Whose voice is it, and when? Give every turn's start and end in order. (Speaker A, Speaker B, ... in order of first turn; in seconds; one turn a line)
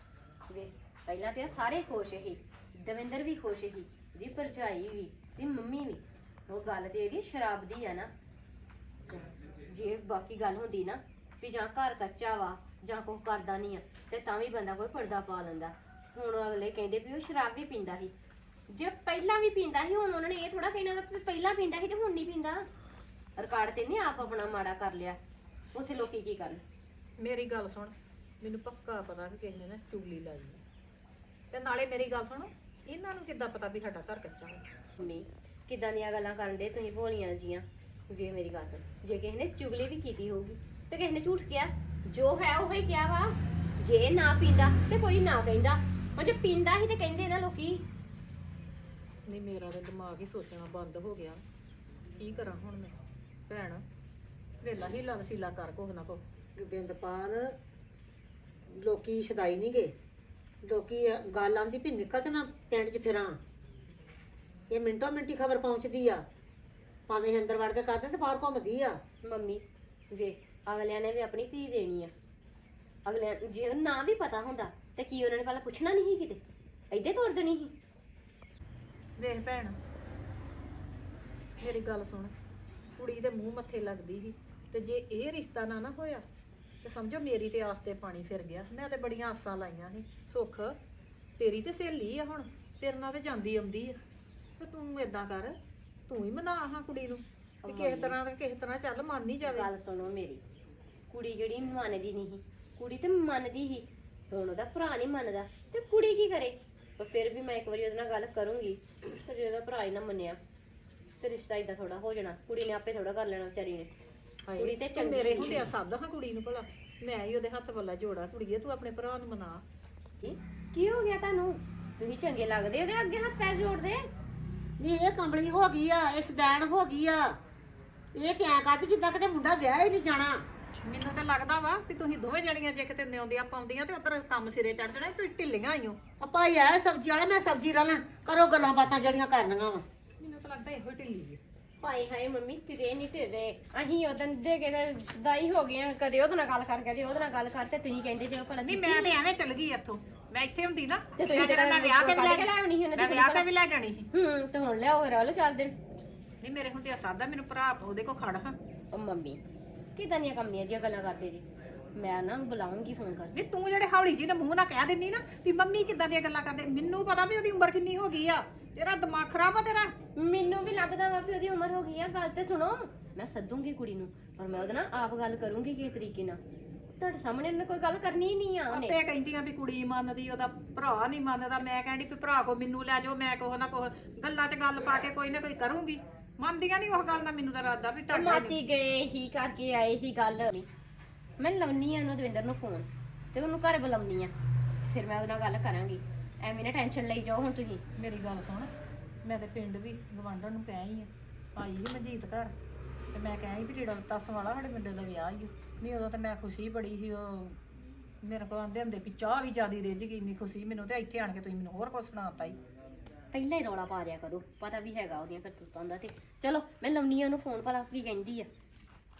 Speaker A: 0.5-8.1
Speaker A: 9.7-18.1
Speaker A: 18.7-22.7
Speaker A: 23.4-25.2
Speaker A: 25.7-26.6
Speaker B: 27.2-30.6
Speaker B: 31.5-34.6
Speaker A: 35.0-47.8
Speaker B: 49.3-51.4
Speaker B: 52.2-53.0
Speaker B: 53.5-53.8
Speaker B: 54.6-56.2
Speaker C: 56.6-57.5
Speaker C: 58.7-59.9
Speaker C: 60.6-63.4
Speaker C: 64.7-66.2
Speaker C: 67.1-69.0
Speaker A: 69.2-72.1
Speaker A: 73.0-77.7
Speaker B: 79.2-79.8
Speaker B: 81.6-82.3
Speaker B: 83.0-86.2
Speaker B: 86.8-90.8
Speaker B: 91.4-94.0
Speaker B: 94.6-95.6
Speaker B: 96.1-99.7
Speaker A: 97.6-98.2
Speaker A: 99.4-100.4
Speaker A: 101.1-110.4
Speaker A: 111.2-113.9
Speaker A: 114.5-115.7
Speaker B: 114.5-119.6
Speaker A: 120.2-124.1
Speaker C: 124.8-127.4
Speaker C: 128.2-130.4
Speaker B: 130.8-136.0
Speaker C: 136.2-139.8
Speaker B: 140.2-141.4
Speaker A: 141.8-149.1
Speaker B: 148.6-154.1
Speaker A: 151.2-153.5
Speaker A: 154.1-155.8
Speaker B: 156.4-158.6
Speaker A: 158.9-159.4
Speaker A: 160.0-161.5
Speaker A: 162.0-163.3
Speaker B: 163.3-169.9
Speaker A: 170.2-176.4
Speaker A: 177.0-179.0
Speaker B: 178.7-188.6
Speaker A: 188.1-190.7
Speaker A: 191.4-197.8
Speaker B: 198.0-198.7
Speaker B: 199.2-202.5
Speaker B: 203.1-207.6
Speaker B: 208.2-212.6
Speaker A: 213.3-218.5